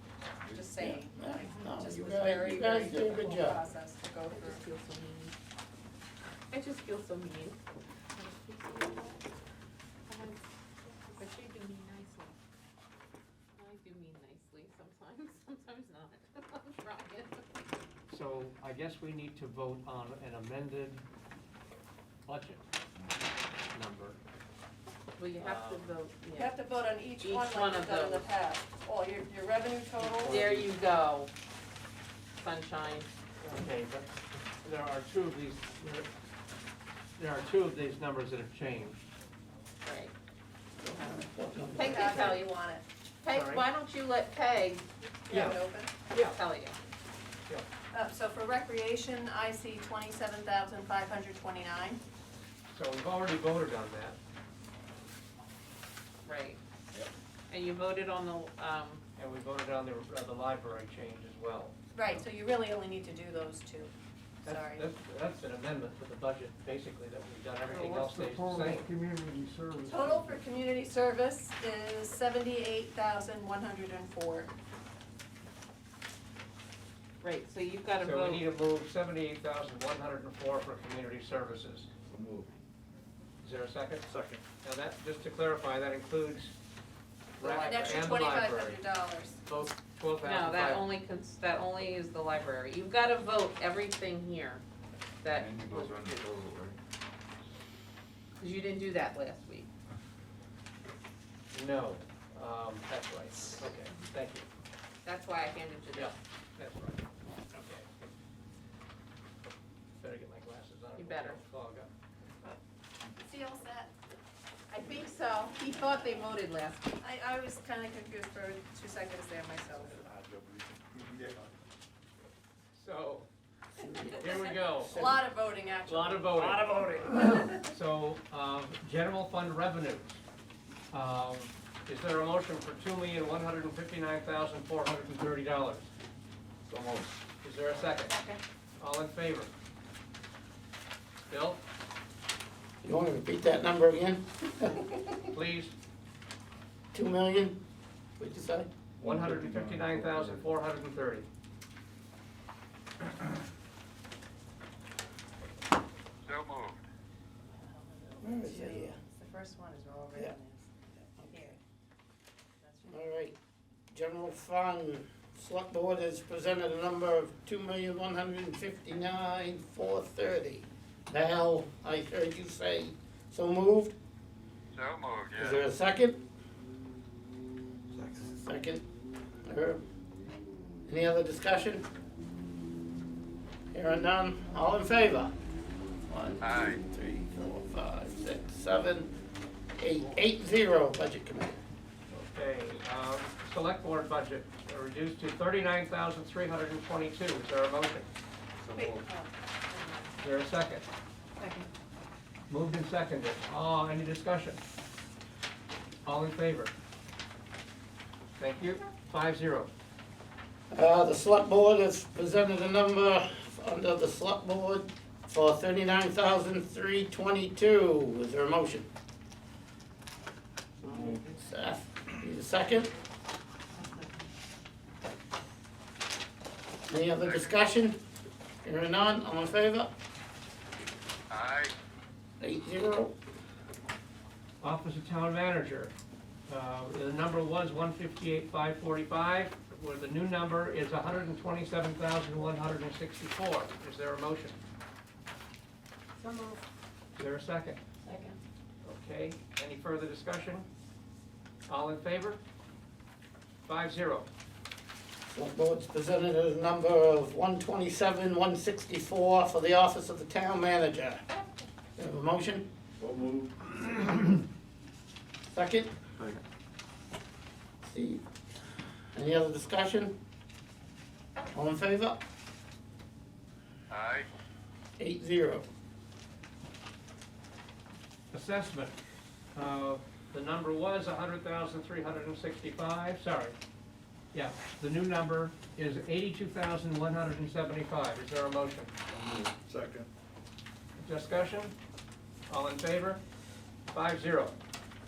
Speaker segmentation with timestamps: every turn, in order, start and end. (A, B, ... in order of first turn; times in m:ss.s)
0:00.4-0:04.6 A
0:00.8-0:03.6 B
0:04.3-0:05.3 C
0:06.5-0:07.6 C
0:08.2-0:09.2 C
0:10.1-0:10.4 C
0:11.2-0:12.3 C
0:13.6-0:17.4 C
0:18.1-0:21.0 D
0:22.2-0:22.6 D
0:23.7-0:24.2 D
0:25.2-0:26.6 C
0:25.4-0:25.9 D
0:26.3-0:30.4 A
0:27.2-0:28.3 C
0:30.2-0:30.6 D
0:30.3-0:31.3 C
0:32.4-0:33.1 C
0:33.4-0:34.1 D
0:34.6-0:36.1 D
0:37.2-0:39.1 D
0:39.8-0:40.1 C
0:40.8-0:42.1 B
0:41.7-0:42.5 C
0:41.8-0:42.8 A
0:41.9-0:42.3 D
0:43.2-0:45.0 C
0:43.3-0:43.7 D
0:45.3-0:45.9 A
0:45.3-0:46.4 D
0:46.2-0:46.8 C
0:47.9-0:52.0 A
0:52.7-0:54.2 D
0:56.2-0:56.6 C
0:57.5-0:59.0 C
0:59.2-1:01.7 D
1:01.9-1:03.9 A
1:04.4-1:08.9 D
1:04.4-1:04.8 A
1:07.7-1:10.4 E
1:09.8-1:14.5 A
1:17.2-1:18.5 C
1:18.0-1:21.9 D
1:22.1-1:22.5 F
1:23.4-1:24.1 D
1:24.0-1:24.4 F
1:24.6-1:26.5 D
1:27.4-1:28.0 C
1:27.4-1:28.8 D
1:27.4-1:29.4 A
1:29.4-1:30.9 D
1:30.2-1:34.6 C
1:35.2-1:36.3 C
1:35.3-1:36.8 F
1:38.4-1:39.7 C
1:41.5-1:44.5 D
1:45.0-1:46.1 C
1:45.9-1:47.9 D
1:50.0-1:51.9 D
1:51.0-1:51.4 C
1:53.2-1:53.9 A
1:54.7-1:57.0 C
1:57.0-2:00.0 A
1:59.8-2:01.5 F
2:02.7-2:03.3 D
2:03.8-2:05.2 B
2:04.0-2:05.1 D
2:04.0-2:07.6 A
2:05.9-2:06.8 D
2:07.4-2:10.2 D
2:10.9-2:15.9 D
2:16.7-2:17.1 F
2:17.4-2:18.1 D
2:18.1-2:18.4 A
2:18.8-2:19.5 D
2:21.3-2:21.6 D
2:22.8-2:25.2 B
2:25.3-2:25.7 D
2:26.9-2:27.6 B
2:28.2-2:28.7 B
2:29.0-2:31.3 D
2:29.0-2:30.5 F
2:36.2-2:36.8 G
2:37.5-2:41.6 A
2:38.2-2:39.0 B
2:42.6-2:43.1 A
2:42.8-2:43.4 B
2:43.9-2:53.9 B
2:54.7-2:55.6 G
2:55.4-2:56.2 B
2:58.2-2:58.8 B
2:59.4-2:59.8 B
3:00.8-3:01.8 B
3:03.7-3:05.3 B
3:06.1-3:09.1 B
3:06.4-3:06.8 G
3:09.8-3:11.5 B
3:12.1-3:18.1 D
3:18.6-3:19.0 F
3:18.7-3:20.0 A
3:20.2-3:20.8 D
3:21.4-3:21.7 A
3:22.5-3:24.6 D
3:26.0-3:26.7 D
3:28.4-3:29.7 D
3:30.7-3:38.9 B
3:40.9-3:42.9 B
3:46.9-3:48.0 B
3:48.6-3:49.9 B
3:51.3-3:51.7 G
3:52.4-3:53.1 B
3:54.6-3:55.9 D
3:56.5-4:04.6 D
4:06.3-4:06.5 A
4:07.2-4:07.8 D
4:08.8-4:10.6 D
4:11.7-4:12.4 D
4:13.6-4:14.3 D
4:15.3-4:21.2 B
4:22.0-4:22.7 B
4:23.0-4:24.3 F
4:25.5-4:25.9 B
4:27.8-4:28.2 B
4:29.1-4:30.1 B
4:31.5-4:32.2 B
4:33.9-4:34.3 G
4:35.0-4:35.6 B
4:38.3-4:39.0 D
4:39.5-4:43.5 D
4:44.3-4:48.9 D
4:49.1-4:50.1 F
4:51.0-4:51.7 D
4:52.5-4:53.2 D
4:53.9-4:54.5 D